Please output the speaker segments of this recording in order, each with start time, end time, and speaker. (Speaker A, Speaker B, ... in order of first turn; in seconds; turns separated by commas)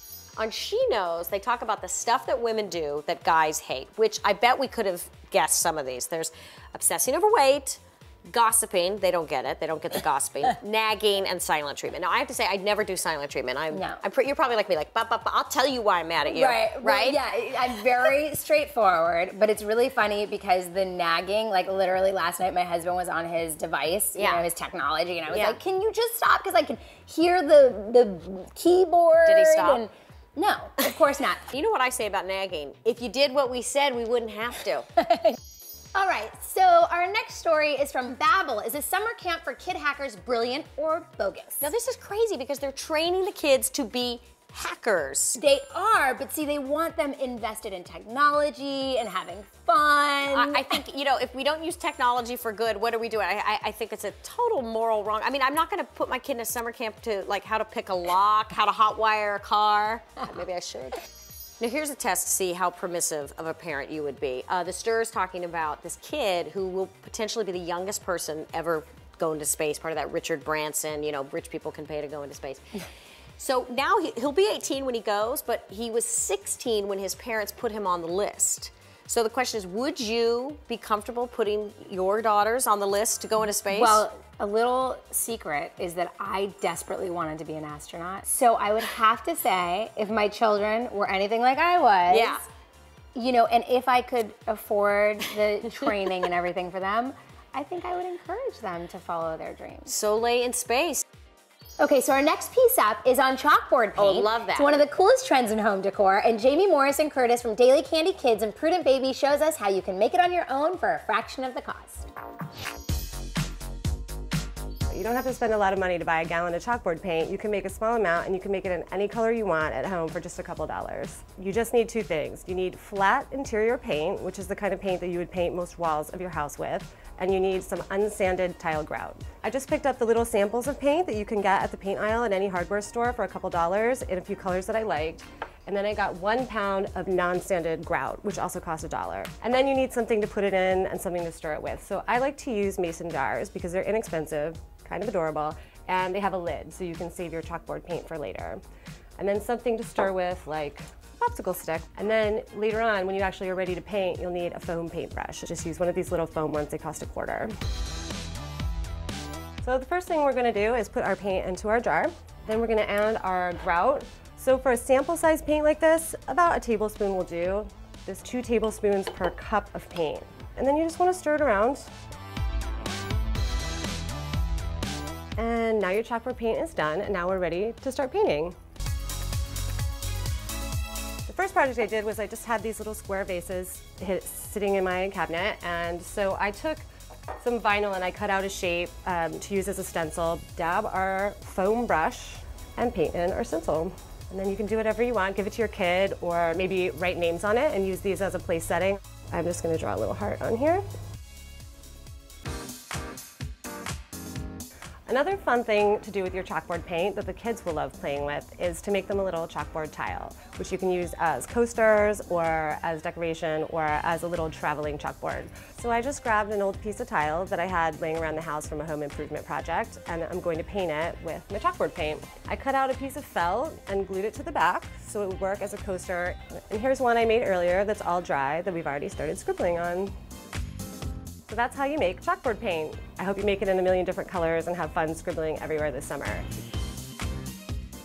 Speaker A: 0.4-17.2, Speaker B: 13.7-14.0, Speaker B: 16.2-31.4, Speaker A: 24.1-24.4, Speaker A: 25.3-25.6, Speaker A: 29.2-29.8, Speaker A: 31.5-34.9, Speaker B: 35.0-35.4, Speaker B: 35.9-41.7, Speaker A: 41.6-45.4, Speaker B: 45.4-50.8, Speaker A: 50.3-61.0, Speaker A: 61.6-72.8, Speaker A: 73.4-84.0, Speaker B: 83.7-92.5, Speaker A: 92.1-92.4, Speaker B: 93.1-99.9, Speaker A: 99.9-101.0, Speaker B: 101.8-112.1, Speaker A: 104.0-104.8, Speaker C: 114.9-148.6, Speaker C: 149.2-157.5, Speaker C: 159.6-171.9, Speaker C: 175.4-178.6, Speaker C: 181.3-186.8, Speaker C: 187.4-200.8, Speaker C: 205.1-230.1, Speaker C: 231.5-236.5